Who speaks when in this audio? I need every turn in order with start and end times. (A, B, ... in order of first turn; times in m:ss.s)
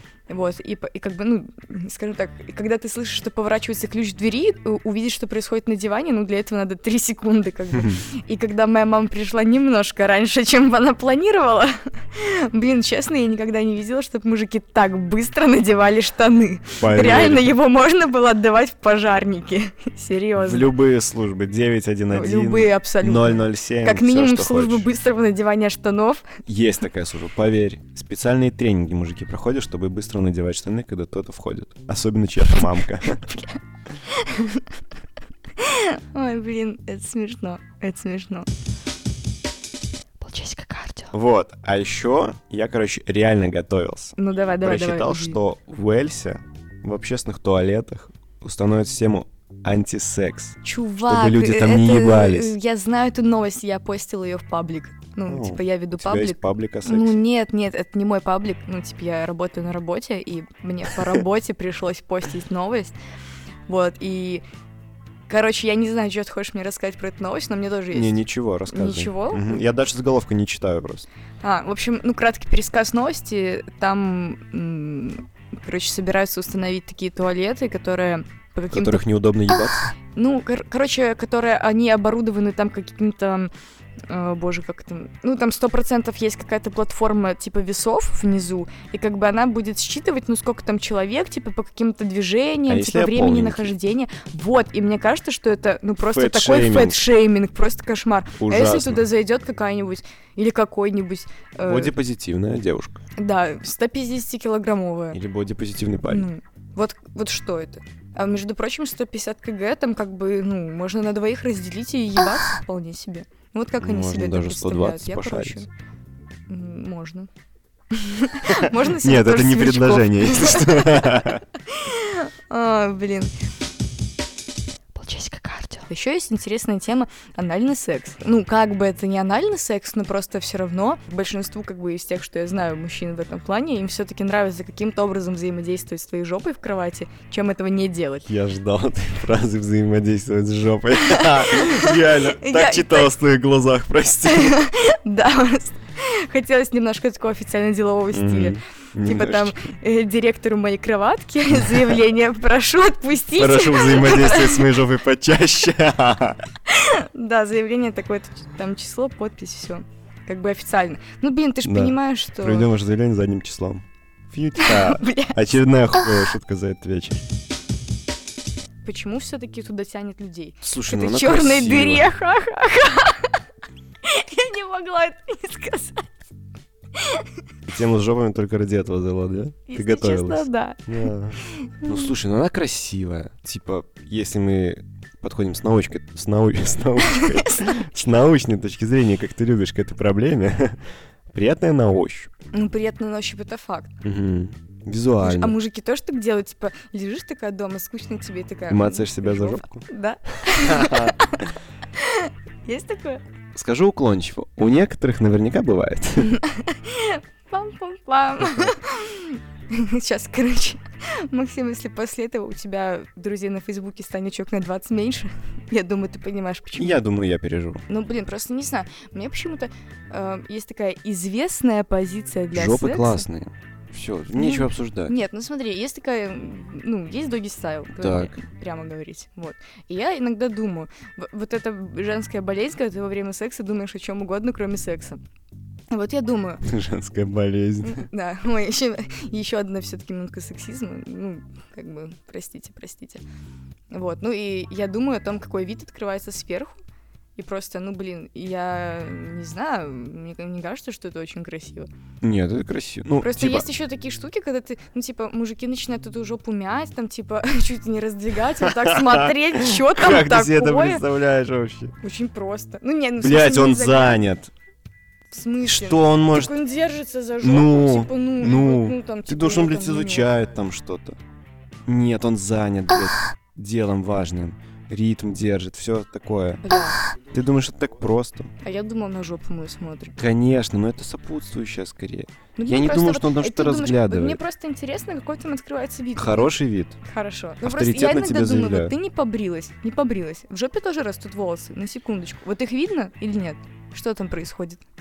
0:00.3-0:20.7 A
0:07.8-0:08.0 B
0:16.8-0:17.5 B
0:20.4-0:24.9 B
0:22.1-0:26.2 A
0:26.4-0:33.2 B
0:33.3-0:34.7 A
0:35.6-0:38.5 A
0:40.2-0:41.1 C
0:41.1-0:52.5 B
0:44.2-0:45.4 A
0:50.6-1:02.9 A
0:55.3-0:57.2 B
1:03.7-1:04.4 A
1:05.3-1:08.2 A
1:07.9-1:11.1 B
1:08.7-1:09.6 A
1:11.4-1:19.0 A
1:18.7-1:19.9 B
1:20.1-1:23.5 A
1:24.1-1:41.9 A
1:32.7-1:33.7 B
1:36.0-1:37.0 B
1:38.4-1:39.0 B
1:41.6-1:43.0 B
1:43.2-1:45.2 A
1:45.1-1:46.3 B
1:46.1-1:55.7 A
1:53.8-1:55.6 B
1:56.5-1:57.3 A
1:57.9-2:03.3 A
1:58.6-2:01.4 B
2:04.9-2:05.9 C
2:05.9-2:18.3 A
2:18.2-2:24.6 B
2:21.1-2:23.1 A
2:24.2-2:34.7 A
2:28.1-2:29.6 B
2:33.4-2:36.4 B
2:36.7-2:42.7 A
2:41.6-2:47.2 B
2:44.6-2:45.4 A
2:48.8-2:53.4 A
2:50.6-2:52.1 B
2:54.0-2:56.1 A
2:56.9-2:57.3 A
2:57.6-3:12.3 B
2:59.7-3:02.1 A
3:07.1-3:07.7 A
3:12.5-3:14.0 A
3:14.0-3:15.6 B
3:15.2-3:23.2 A
3:18.7-3:19.8 B
3:20.4-3:21.2 B
3:23.5-3:26.4 B
3:26.2-3:37.0 A
3:36.8-3:37.8 B
3:37.9-3:43.2 A
3:42.5-3:45.1 B
3:44.4-3:55.2 A
3:48.0-3:48.4 B
3:55.9-3:56.6 A
3:56.6-3:58.1 B
3:57.8-4:03.2 A
4:03.9-4:06.8 A
4:07.4-4:11.9 A
4:12.2-4:13.7 B
4:13.2-4:21.0 A
4:18.6-4:22.0 B
4:22.0-4:24.3 A
4:23.2-4:24.5 B
4:25.3-4:30.3 A
4:25.6-4:26.6 B
4:27.4-4:31.2 B
4:31.8-4:36.7 B
4:36.6-4:37.0 A
4:37.3-4:38.5 B
4:38.6-4:40.2 A
4:40.2-4:44.4 B
4:42.6-4:54.8 A
4:46.2-4:47.0 B
4:47.6-4:48.9 B